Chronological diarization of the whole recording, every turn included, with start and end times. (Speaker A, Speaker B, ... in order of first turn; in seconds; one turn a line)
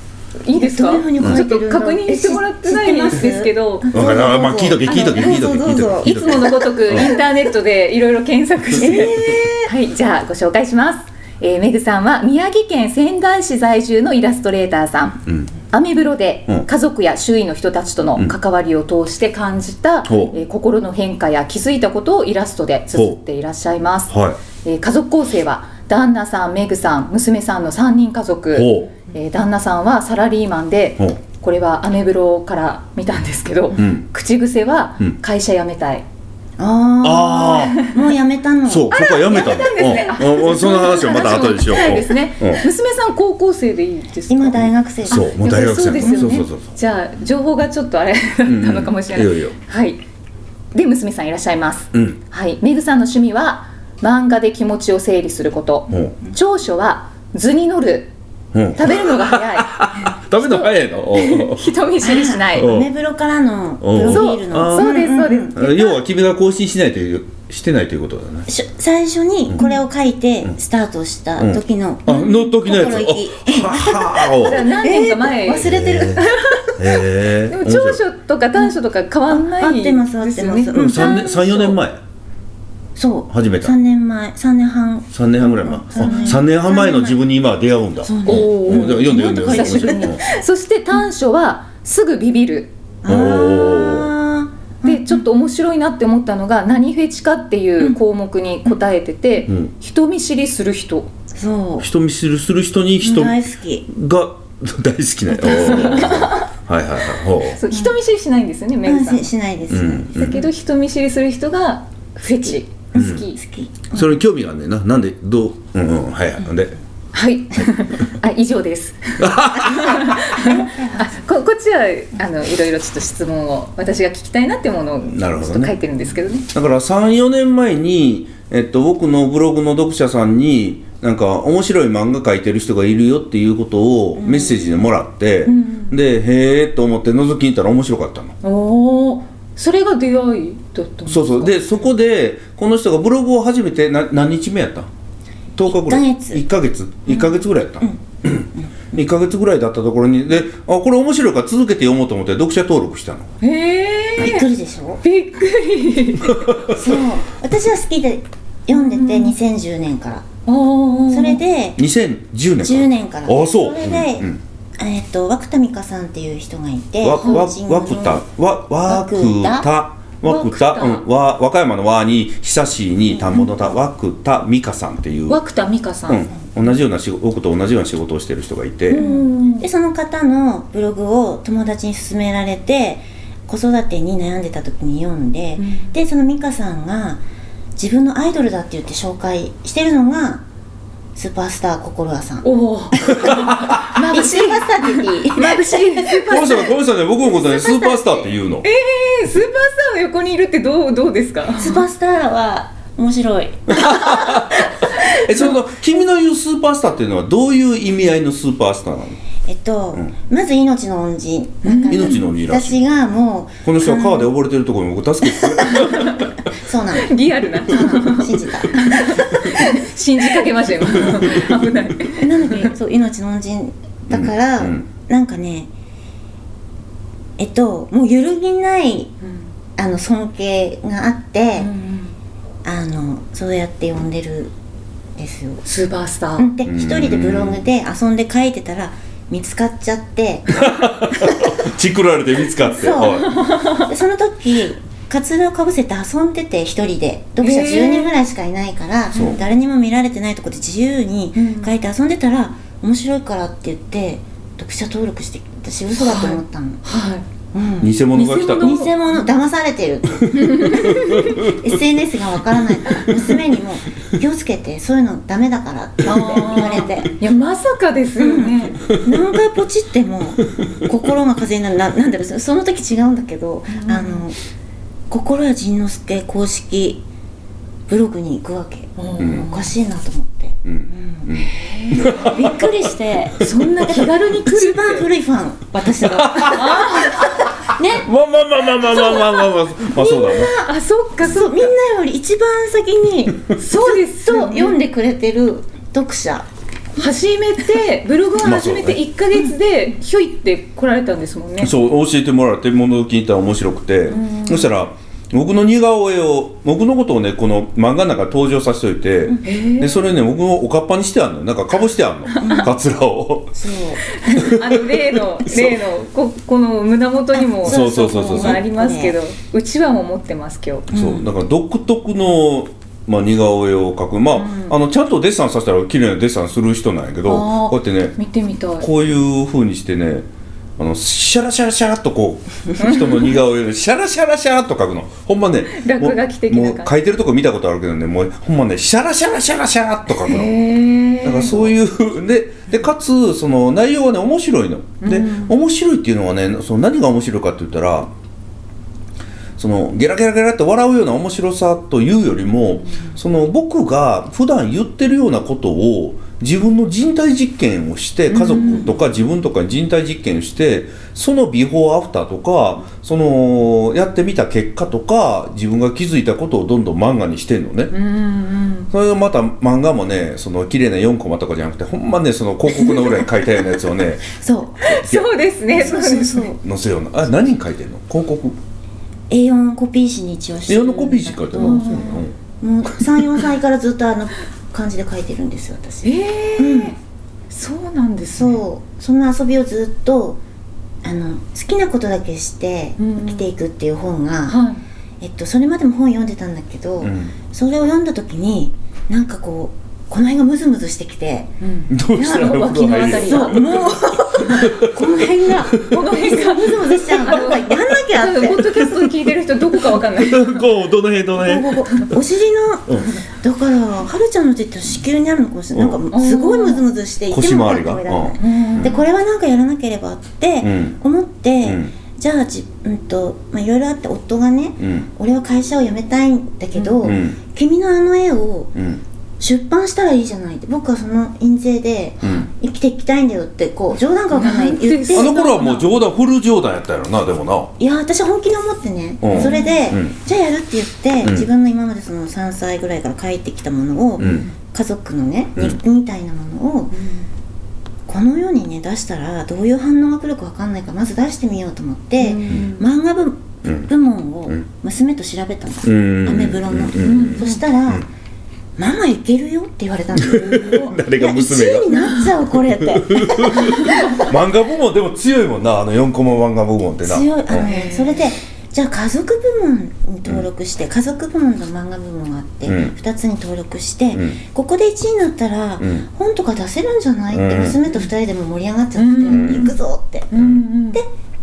Speaker A: 0.4-4.2
Speaker B: 0.5-7.2
Speaker C: 3.9-7.1
Speaker A: 4.9-5.4
Speaker A: 6.0-15.2
Speaker B: 8.8-9.7
Speaker C: 15.3-15.5
Speaker A: 15.7-36.1
Speaker C: 20.1-20.4
Speaker C: 22.9-23.2
Speaker C: 24.1-24.4
Speaker C: 28.5-28.9
Speaker C: 33.7-34.1
Speaker B: 36.6-39.0
Speaker C: 37.0-37.8
Speaker A: 37.6-38.0
Speaker C: 38.6-42.6
Speaker A: 38.9-50.0
Speaker B: 44.3-45.3
Speaker C: 45.1-46.7
Speaker B: 46.0-46.3
Speaker C: 48.5-49.5
Speaker A: 50.7-58.1
Speaker C: 51.9-52.2
Speaker C: 55.9-56.2
Speaker C: 58.5-61.7
Speaker A: 58.8-59.8
Speaker A: 60.4-62.7
Speaker B: 62.0-65.5
Speaker C: 62.6-62.9
Speaker C: 63.8-65.0
Speaker A: 64.1-66.0
Speaker C: 65.5-68.5
Speaker B: 68.5-76.3
Speaker C: 71.4-74.6
Speaker A: 74.4-75.7
Speaker C: 75.6-78.0
Speaker A: 76.2-76.8
Speaker A: 77.5-81.8
Speaker B: 79.3-81.3
Speaker C: 80.7-82.0
Speaker B: 83.0-87.2
Speaker C: 83.3-83.8
Speaker C: 85.1-90.2
Speaker A: 86.0-86.4
Speaker B: 88.0-90.2
Speaker A: 88.2-92.8
Speaker B: 93.0-95.2
Speaker C: 93.0-94.1
Speaker A: 94.8-101.1
Speaker B: 101.3-101.9
Speaker C: 101.8-103.4
Speaker B: 103.0-103.9
Speaker C: 103.9-107.6
Speaker A: 105.4-106.5
Speaker B: 105.6-106.1
Speaker A: 107.6-109.3
Speaker B: 108.8-110.4
Speaker C: 109.7-110.5
Speaker A: 110.2-113.4
Speaker B: 112.4-114.1
Speaker C: 113.0-113.2
Speaker C: 113.9-116.8
Speaker A: 117.1-126.5
Speaker C: 119.2-120.2
Speaker B: 120.5-121.0
Speaker C: 125.1-125.7
Speaker C: 126.5-138.3
Speaker B: 134.2-134.9
Speaker A: 135.4-135.9
Speaker A: 138.4-141.6
Speaker C: 141.1-144.9
Speaker C: 145.6-153.3
Speaker B: 145.6-146.4
Speaker B: 147.1-148.0
Speaker A: 153.4-154.5
Speaker B: 154.2-155.0
Speaker A: 155.0-156.5
Speaker C: 156.3-156.8
Speaker B: 156.7-160.3
Speaker A: 158.7-159.4
Speaker A: 160.5-161.4
Speaker B: 161.1-161.8
Speaker C: 161.8-164.4
Speaker B: 162.6-168.2
Speaker C: 167.0-175.4
Speaker A: 167.2-167.5
Speaker B: 168.9-169.7
Speaker A: 170.2-171.1
Speaker B: 173.2-173.5
Speaker A: 175.3-176.2
Speaker C: 176.1-179.0
Speaker A: 178.9-179.7
Speaker B: 178.9-187.2
Speaker A: 185.6-185.9
Speaker B: 187.8-190.4
Speaker B: 191.2-196.7
Speaker A: 192.4-196.7
Speaker C: 193.2-193.8
Speaker C: 196.3-198.7
Speaker B: 197.3-198.3
Speaker A: 198.6-201.8
Speaker B: 201.6-204.5
Speaker C: 203.7-209.2
Speaker B: 209.5-214.3
Speaker A: 211.6-212.2
Speaker C: 211.9-212.8
Speaker C: 213.6-216.3
Speaker A: 215.8-216.2
Speaker B: 216.5-219.3
Speaker A: 217.0-222.7
Speaker B: 222.1-225.7
Speaker C: 224.1-224.9
Speaker B: 227.4-229.2
Speaker B: 229.8-231.7
Speaker A: 231.6-232.1
Speaker B: 232.6-234.5
Speaker B: 235.2-235.6
Speaker A: 235.7-236.5
Speaker B: 236.4-241.5
Speaker C: 236.7-237.6
Speaker C: 240.5-243.3
Speaker B: 242.7-256.8
Speaker A: 243.3-243.9
Speaker A: 247.4-248.1
Speaker A: 249.1-249.4
Speaker A: 251.4-251.7
Speaker A: 256.0-257.2
Speaker B: 257.5-267.1
Speaker C: 257.8-258.8
Speaker A: 258.1-259.3
Speaker A: 260.4-261.4
Speaker A: 266.1-268.9
Speaker B: 268.2-274.4
Speaker C: 268.9-269.2
Speaker A: 273.7-274.2
Speaker B: 275.1-277.0
Speaker B: 277.9-281.4
Speaker A: 279.0-279.7
Speaker C: 279.2-279.5
Speaker C: 280.6-282.7
Speaker A: 281.5-282.4
Speaker B: 282.1-288.1
Speaker A: 283.4-285.1
Speaker C: 286.0-286.9
Speaker A: 286.5-287.4
Speaker C: 288.0-290.6
Speaker A: 288.9-291.7
Speaker B: 290.0-290.6
Speaker B: 291.2-296.5
Speaker A: 293.6-294.8
Speaker A: 297.0-301.7
Speaker C: 298.4-299.0
Speaker C: 301.6-313.6
Speaker B: 304.1-304.7
Speaker A: 309.4-310.1
Speaker A: 312.4-312.7
Speaker B: 312.4-312.7
Speaker B: 313.5-314.0
Speaker A: 314.1-320.9
Speaker C: 314.3-315.8
Speaker B: 317.3-319.2
Speaker C: 317.6-318.6
Speaker B: 320.9-321.3
Speaker C: 320.9-328.2
Speaker A: 324.4-324.7
Speaker A: 327.2-328.9
Speaker C: 328.8-330.3
Speaker C: 330.8-340.6
Speaker A: 332.8-333.3
Speaker A: 335.8-336.9
Speaker A: 340.3-341.7
Speaker C: 341.2-348.1
Speaker A: 345.0-345.5
Speaker C: 349.6-367.9
Speaker A: 358.3-358.9
Speaker B: 358.6-359.0
Speaker A: 367.9-368.9
Speaker C: 368.9-375.3
Speaker B: 374.3-374.9
Speaker A: 374.8-376.5
Speaker B: 375.7-376.6
Speaker C: 376.3-378.6
Speaker B: 379.3-387.0
Speaker C: 380.7-382.4
Speaker A: 381.6-382.1
Speaker C: 383.0-383.2
Speaker A: 386.1-387.0
Speaker A: 387.5-388.6
Speaker B: 388.3-390.4
Speaker B: 391.0-394.6
Speaker A: 393.0-393.5
Speaker A: 394.5-394.8
Speaker B: 395.2-401.5
Speaker C: 397.0-397.3
Speaker A: 401.6-404.8
Speaker C: 401.9-406.0
Speaker B: 403.2-409.0
Speaker A: 405.7-410.6
Speaker C: 407.1-407.6
Speaker C: 410.0-411.8
Speaker B: 411.4-428.7
Speaker C: 412.9-413.1
Speaker C: 415.7-416.0
Speaker A: 416.1-416.8
Speaker C: 417.3-419.0
Speaker A: 418.4-418.9
Speaker C: 420.6-421.0
Speaker C: 421.6-421.9
Speaker C: 424.8-425.1
Speaker A: 426.8-427.1
Speaker C: 427.0-427.4
Speaker C: 428.8-429.0
Speaker B: 429.4-435.3
Speaker C: 432.2-432.5
Speaker A: 434.3-435.9
Speaker C: 435.1-437.7
Speaker B: 437.8-446.9
Speaker C: 439.2-440.2
Speaker A: 439.3-439.9
Speaker C: 444.2-444.5
Speaker A: 444.2-444.5
Speaker A: 446.9-447.3
Speaker B: 448.1-458.1
Speaker A: 452.2-452.9
Speaker C: 455.9-458.1
Speaker A: 457.0-457.6
Speaker B: 458.8-464.2
Speaker C: 460.2-467.7
Speaker A: 461.9-462.2
Speaker B: 467.0-480.3
Speaker A: 467.5-468.2
Speaker C: 472.6-472.9
Speaker C: 474.1-474.4
Speaker C: 475.8-476.1
Speaker C: 477.3-477.8
Speaker A: 478.9-479.8
Speaker C: 479.2-479.7
Speaker A: 480.3-481.0
Speaker C: 480.3-480.7